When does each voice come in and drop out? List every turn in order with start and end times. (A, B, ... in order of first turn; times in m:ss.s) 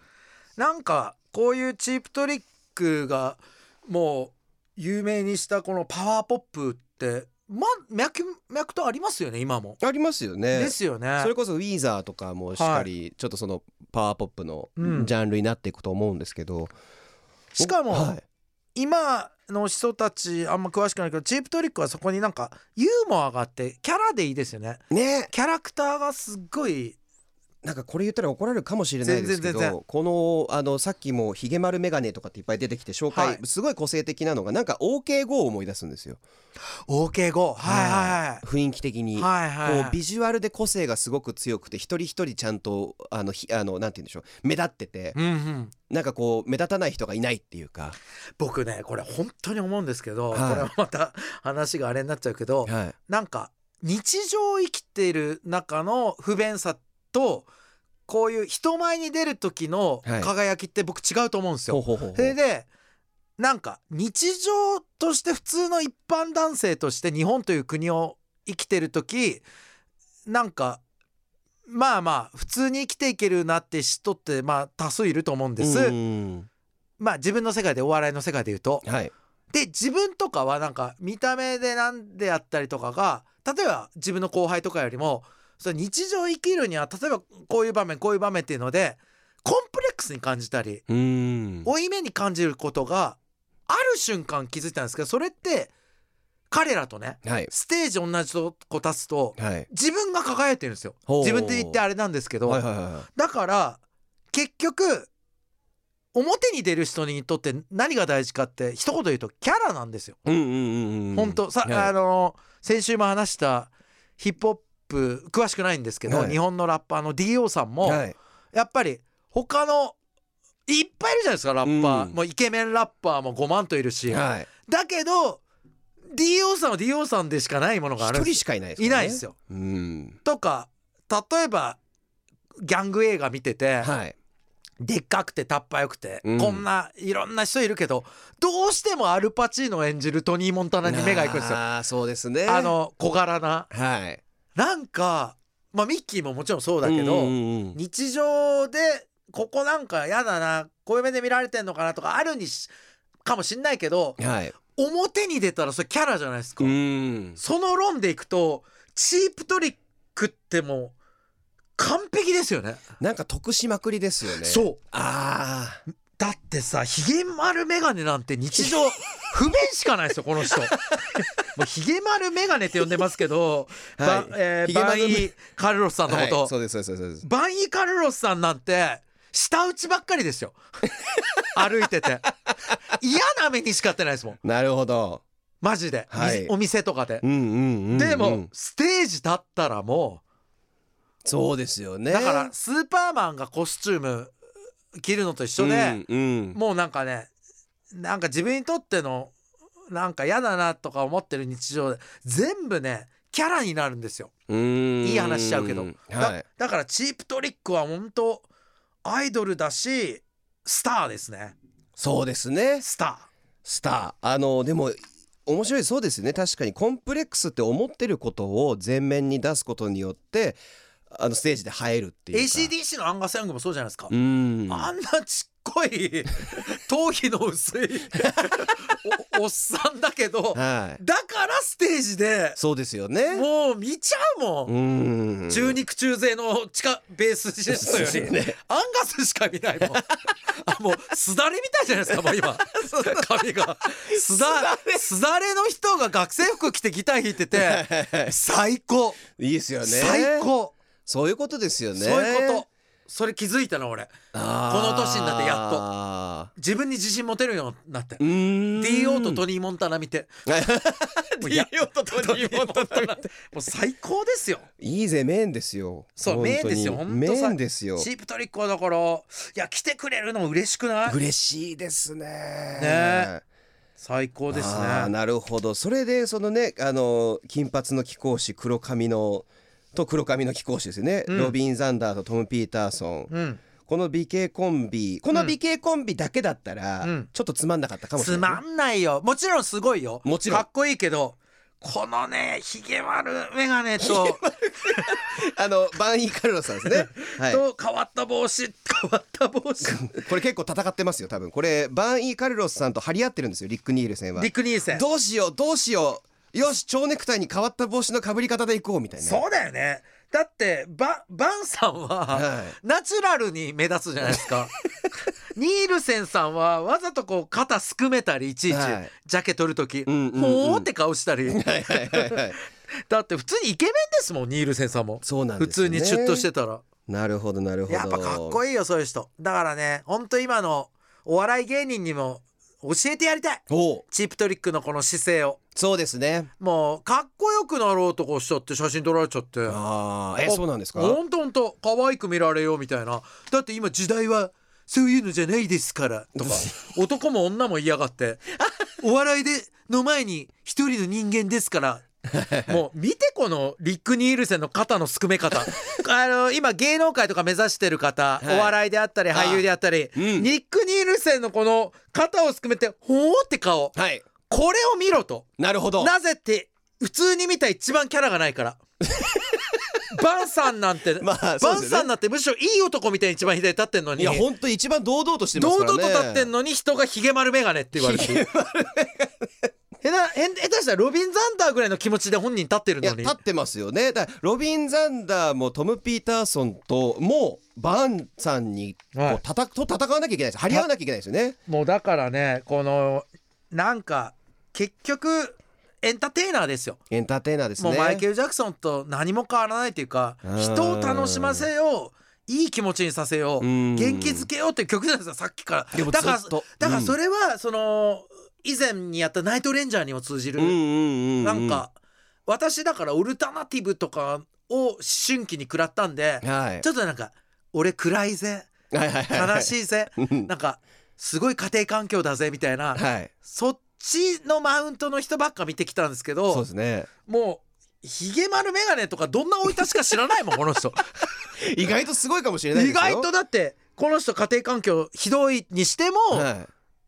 0:00.6-0:09.8 A
0:09.8-0:16.7 B
0:10.5-0:11.3 A
0:12.6-0:12.9 A
0:14.8-0:15.1 A
0:17.6-0:18.2 A
0:17.6-0:18.2 B
0:18.7-0:27.0 A
0:24.9-0:25.3 B
0:27.6-0:36.2 B
0:29.0-0:29.8 A
0:33.1-0:33.4 A
0:36.9-0:38.4 A
0:37.6-0:45.2 B
0:39.2-0:40.0 A
0:45.1-0:45.7 A
0:45.9-0:48.0 B
0:48.4-0:57.5 A
0:50.3-0:50.7 B
0:52.6-0:52.9 B
0:58.1-1:02.7 A
1:00.0-1:00.3 B
1:01.7-1:02.4 B
1:03.4-1:09.4 A
1:10.2-1:10.8 A
1:11.7-1:16.0 A
1:15.6-1:16.5 B
1:17.0-1:18.8 A
1:18.8-1:19.1 B
1:19.5-1:30.8 A
1:30.9-1:31.7 B
1:31.6-1:35.7 A
1:36.5-1:43.8 A
1:37.2-1:37.5 B
1:39.4-1:39.6 B
1:41.1-1:41.8 B
1:42.4-1:43.1 B
1:44.3-1:45.1 A
1:46.1-1:50.2 A
1:50.2-1:51.9 B
1:51.1-2:00.0 A
1:56.1-1:56.4 B
1:57.8-1:58.2 B
2:00.7-2:05.4 A
2:01.6-2:02.2 B
2:04.1-2:04.5 B
2:06.1-2:09.3 A
2:08.0-2:10.2 B
2:10.2-2:11.8 A
2:12.6-2:13.9 A
2:13.8-2:14.1 B
2:14.8-2:21.6 A
2:16.2-2:16.6 B
2:20.8-2:22.7 B
2:22.4-2:23.7 A
2:23.7-2:24.2 B
2:24.5-2:32.7 A
2:26.8-2:27.8 B
2:33.2-2:36.8 A
2:34.2-2:34.6 B
2:36.6-2:37.4 B
2:37.4-2:40.9 A
2:41.8-2:42.8 A
2:43.0-2:45.8 B
2:44.4-2:44.8 A
2:46.2-2:50.8 A
2:51.5-2:56.5 A
2:54.0-2:55.3 B
2:56.1-2:57.2 B
2:57.2-3:00.6 A
3:01.5-3:02.3 A
3:02.9-3:04.4 A
3:04.4-3:05.2 B
3:05.6-3:07.2 A
3:06.1-3:06.5 B
3:07.2-3:08.5 B
3:07.9-3:10.2 A
3:11.2-3:12.5 B
3:12.1-3:14.3 A
3:15.0-3:17.3 A
3:15.6-3:16.6 B
3:17.9-3:19.3 A
3:19.9-3:24.3 A
3:24.5-3:26.4 B
3:25.0-3:28.5 A
3:29.0-3:31.6 A
3:32.0-3:32.8 B
3:32.8-3:33.3 A
3:33.6-3:40.6 B
3:41.1-3:42.7 B
3:42.3-3:44.1 A
3:44.1-3:44.9 B
3:44.7-3:52.6 A
3:48.1-3:48.7 B
3:50.5-3:51.0 B
3:52.6-3:53.4 B
3:53.3-3:54.7 A
3:54.7-3:55.8 B
3:55.5-4:09.2 A
3:57.7-3:58.6 B
3:59.8-4:00.2 B
4:02.1-4:05.1 B
4:07.5-4:08.3 B
4:09.4-4:10.5 B
4:09.8-4:10.7 A
4:11.0-4:12.6 B
4:11.9-4:14.2 A
4:14.3-4:16.5 B
4:14.7-4:15.8 A
4:16.6-4:20.3 A
4:18.2-4:19.4 B
4:20.4-4:23.3 B
4:21.4-4:24.6 A
4:24.8-4:28.1 B
4:26.2-4:31.2 A
4:31.0-4:33.4 B
4:32.8-4:33.3 A
4:34.0-4:35.1 A
4:34.5-4:43.3 B
4:41.3-4:41.5 A
4:43.3-4:43.6 A
4:43.8-4:48.6 B
4:47.0-4:47.3 A
4:48.2-4:54.4 A
4:50.2-4:50.6 B
4:54.0-4:57.6 B
4:56.8-5:00.2 A
4:59.8-5:09.4 B
5:04.4-5:05.0 A
5:09.2-5:14.7 A
5:12.3-5:12.8 B
5:15.5-5:22.5 A
5:18.7-5:19.1 B
5:20.1-5:20.9 B
5:21.5-5:22.6 B
5:23.1-5:26.8 A
5:25.2-5:26.5 B
5:27.1-5:28.6 B
5:27.9-5:35.6 A
5:33.7-5:34.0 B
5:35.7-5:36.5 B
5:36.6-5:39.8 A
5:39.7-5:41.2 B
5:40.4-5:52.0 A
5:46.4-5:46.7 B
5:52.3-5:52.8 B
5:52.6-6:03.9 A
5:58.4-5:58.7 B
5:59.3-6:00.5 B
6:03.9-6:04.2 B
6:04.4-6:05.5 A
6:05.6-6:06.1 B
6:06.0-6:08.8 A
6:09.1-6:09.8 B
6:10.1-6:14.4 A
6:11.2-6:12.1 B
6:14.2-6:16.5 B
6:15.5-6:18.5 A
6:18.0-6:19.7 B
6:20.0-6:23.4 A
6:23.0-6:31.6 B
6:29.1-6:29.4 A
6:31.6-6:37.0 A
6:37.1-6:38.2 B
6:37.8-6:50.8 A
6:40.4-6:41.7 B
6:43.6-6:44.5 B
6:45.9-6:47.2 B
6:50.6-6:51.8 B
6:51.4-6:51.9 A
6:52.4-6:58.7 A
6:56.4-6:56.8 B
6:58.9-7:00.5 B
6:59.3-7:06.6 A
7:02.9-7:03.3 B
7:06.5-7:07.1 B
7:07.2-7:11.2 A
7:11.6-7:13.3 B
7:12.7-7:16.5 A
7:16.3-7:16.7 B